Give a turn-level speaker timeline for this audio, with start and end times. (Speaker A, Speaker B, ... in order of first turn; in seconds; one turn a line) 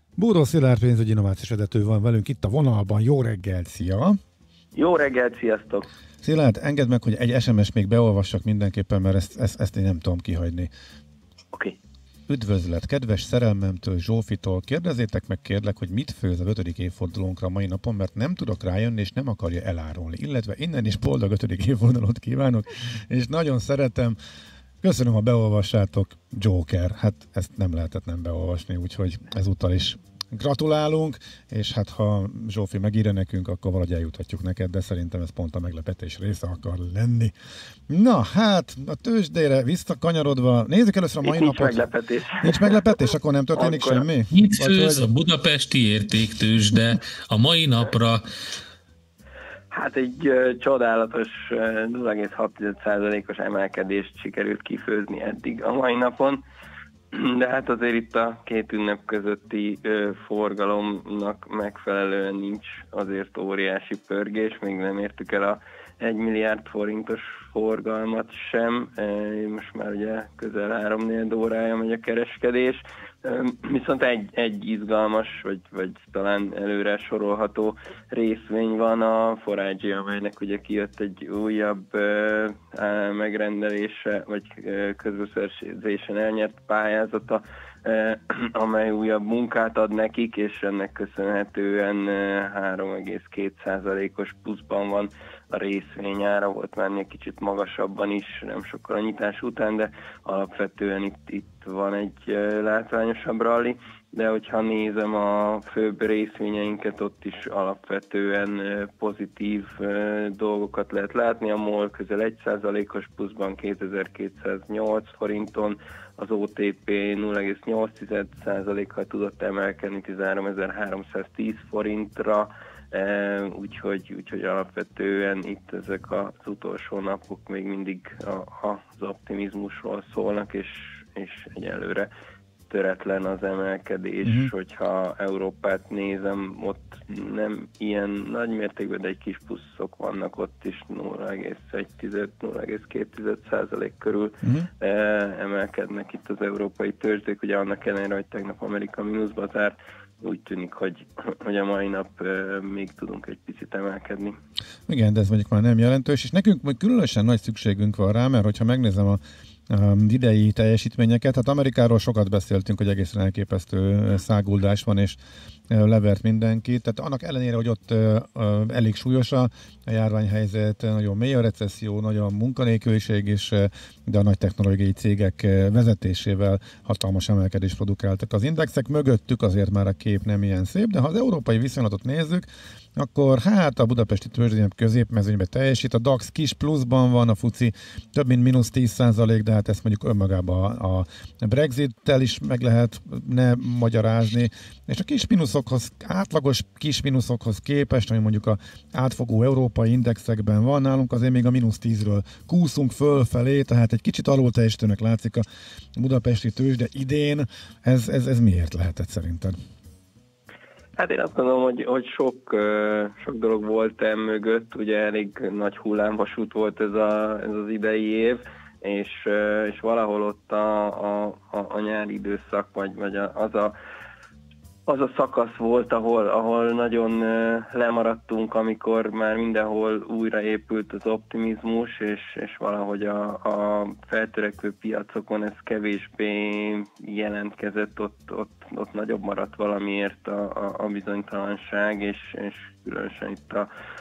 Speaker A: 0.2-4.2
Speaker B: 4.7-5.9
Speaker A: 6.2-10.7
Speaker A: 12.3-24.2
Speaker A: 24.8-37.3
Speaker A: 37.9-41.9
Speaker B: 41.2-43.0
Speaker A: 42.4-45.1
Speaker B: 43.5-44.1
Speaker C: 44.3-48.2
Speaker B: 49.7-56.4
Speaker B: 57.1-132.1
Speaker B: 132.7-154.4
Speaker A: 134.2-134.5
Speaker A: 144.4-144.7
Speaker A: 154.9-165.2
Speaker A: 165.7-205.4
Speaker A: 206.0-209.5
Speaker B: 211.0-223.8
Speaker B: 224.8-243.7